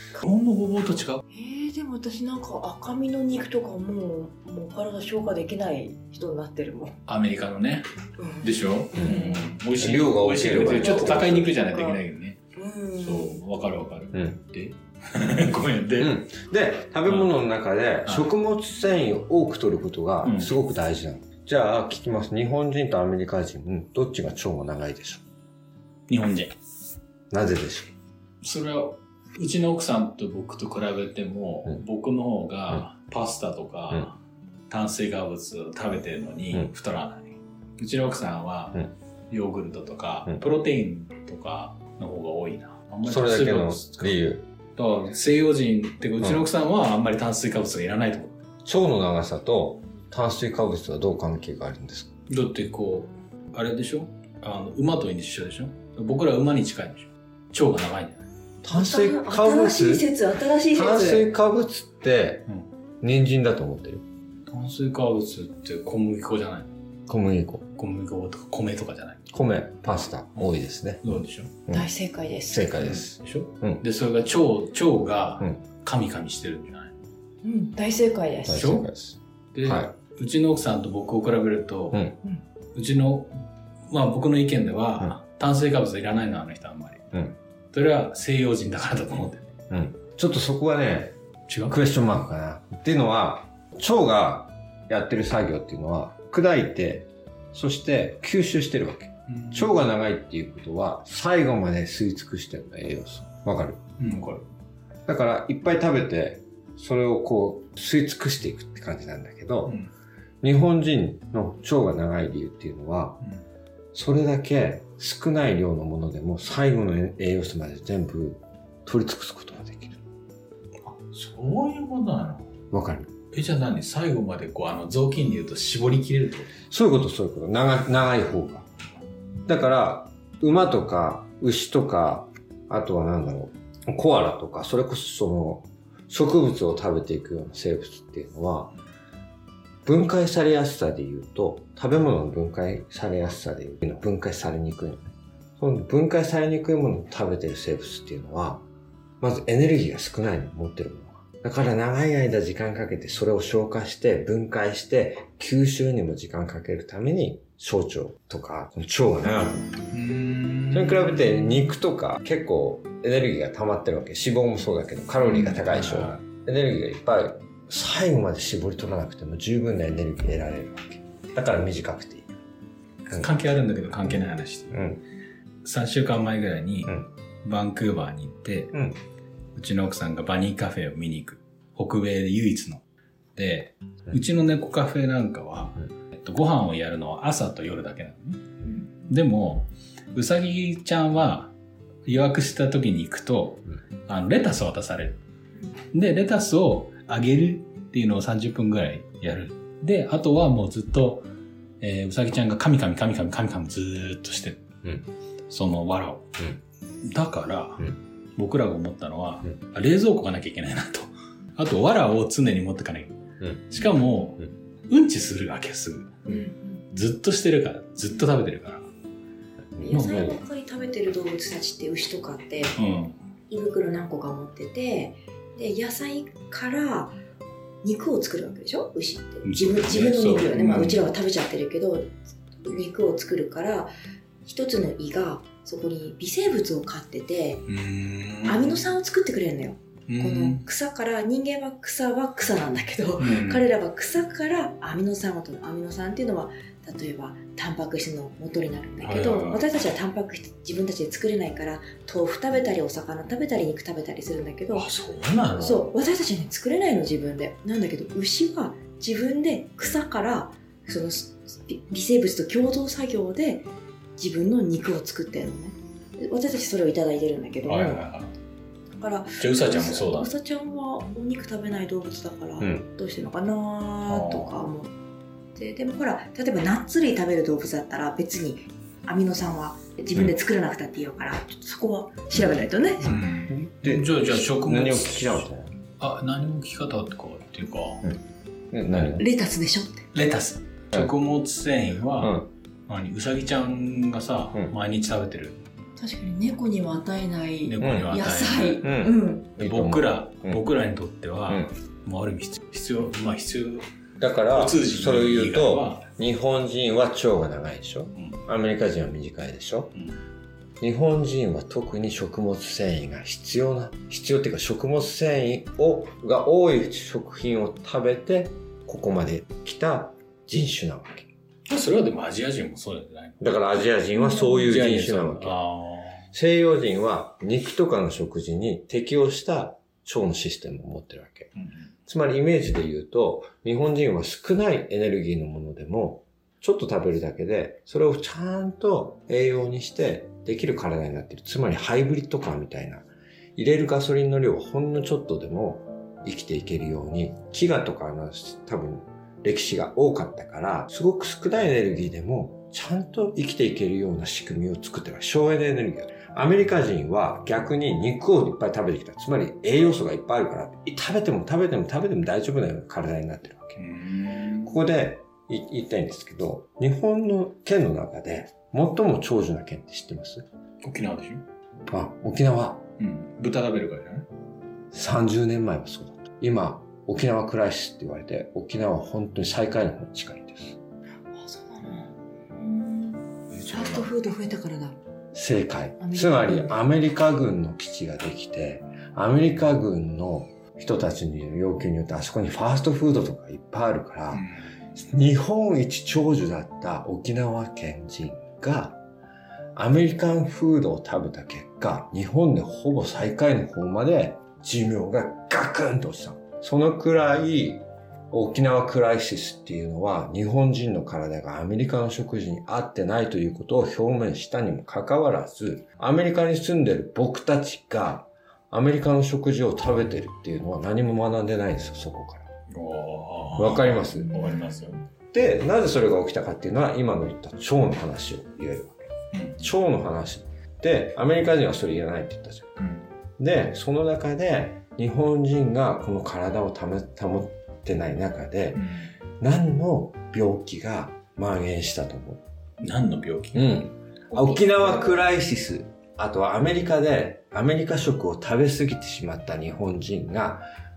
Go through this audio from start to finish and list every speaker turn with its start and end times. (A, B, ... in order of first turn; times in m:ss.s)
0:00.2-0:01.2 A
0:01.3-0:07.0 B
0:07.1-0:07.9 A
0:08.2-0:09.5 B
0:08.4-0:12.4 A
0:08.9-0:11.5 C
0:10.6-0:12.0 B
0:12.5-0:13.4 B
0:13.0-0:16.2 A
0:14.1-0:14.4 C
0:16.0-0:25.2 C
0:20.2-0:20.5 A
0:26.1-0:26.5 A
0:27.3-0:27.9 C
0:28.4-0:34.2 A
0:34.7-0:44.2 A
0:43.0-0:44.4 C
0:44.8-0:48.4 A
0:48.6-0:52.1 C
0:52.3-0:58.2 A
0:58.6-1:00.1 C
0:58.7-1:01.3 B
1:00.7-1:02.5 C
1:03.0-1:04.0 C
1:04.5-1:06.7 A
1:07.1-1:07.6 C
1:07.8-1:09.3 A
1:09.3-1:11.0 C
1:11.0-1:11.5 A
1:11.7-1:12.7 B
1:12.5-1:13.8 C
1:12.8-1:17.0 A
1:17.4-1:18.8 B
1:18.5-1:19.9 C
1:18.5-1:18.8 A
1:19.5-1:22.1 A
1:22.7-1:23.3 A
1:23.9-1:27.0 A
1:27.7-1:29.5 A
1:29.7-1:31.2 C
1:31.5-1:31.8 A
1:31.7-1:43.8 C
1:39.3-1:39.7 A
1:44.0-1:44.4 A
1:45.1-1:49.8 C
1:50.4-1:53.2 C
1:53.9-2:00.0 C
2:00.8-2:02.5 A
2:02.7-2:03.1 C
2:03.3-2:06.5 A
2:06.7-2:08.7 C
2:09.4-2:18.7 C
2:19.8-2:28.6 C
2:29.2-2:39.8 C
2:39.9-2:41.7 A
2:40.7-2:52.3 C
2:45.2-2:46.2 A
2:53.1-2:54.8 A
2:54.7-2:55.0 C
2:55.6-2:58.7 A
2:58.7-2:59.0 C
2:59.6-3:02.8 A
3:03.4-3:08.4 A
3:09.1-3:11.5 A
3:12.0-3:15.2 A
3:15.9-3:21.3 A
3:21.8-3:24.7 A
3:25.5-3:26.5 A
3:27.0-3:33.2 A
3:33.4-3:33.6 C
3:33.7-3:36.4 A
3:36.3-3:36.8 B
3:36.9-3:38.9 A
3:39.7-3:40.4 C
3:39.8-3:42.8 B
3:39.9-3:40.3 A
3:42.8-3:43.2 A
3:43.5-3:47.2 B
3:47.8-3:53.9 B
3:49.4-3:51.1 A
3:54.4-3:57.6 B
3:57.7-3:58.8 A
3:58.4-4:14.9 B
4:00.1-4:00.6 A
4:03.2-4:03.6 A
4:09.0-4:09.6 A
4:14.7-4:15.8 A
4:15.6-4:28.1 B
4:27.6-4:28.3 A
4:29.0-4:34.9 B
4:29.4-4:30.3 A
4:32.6-4:32.8 C
4:34.0-4:34.5 A
4:35.5-4:43.3 B
4:43.0-4:45.5 A
4:43.5-4:45.7 C
4:46.0-4:48.1 A
4:48.7-4:49.2 C
4:49.2-4:50.1 B
4:50.1-4:55.6 A
4:52.2-4:52.5 C
4:56.0-4:59.5 B
4:57.6-4:58.8 A
4:57.8-4:58.1 C
4:58.8-5:00.6 C
4:59.6-5:03.8 A
5:04.2-5:10.0 C
5:04.5-5:06.0 A
5:10.8-5:21.3 C
5:21.7-5:23.4 A
5:23.4-5:25.6 C
5:24.4-5:26.2 A
5:26.3-5:31.5 C
5:32.1-6:03.8 C
6:03.8-6:04.8 A
6:04.6-6:10.4 C
6:10.8-6:11.4 A
6:11.9-6:12.8 C
6:13.0-6:14.3 A
6:14.9-6:20.8 C
6:21.3-6:25.0 B
6:23.5-6:24.1 A
6:25.3-6:39.0 C
6:26.0-6:26.8 B
6:39.8-7:02.4 C
7:02.7-7:05.0 A
7:03.6-7:04.4 C
7:04.3-7:04.9 B
7:05.3-7:09.0 C
7:09.3-7:09.7 A
7:09.6-7:12.8 C
7:12.8-7:13.1 A
7:13.4-7:18.8 C
7:18.8-7:19.1 A
7:19.4-7:22.4 C
7:22.8-7:23.7 A
7:23.5-7:30.6 C
7:24.3-7:25.2 B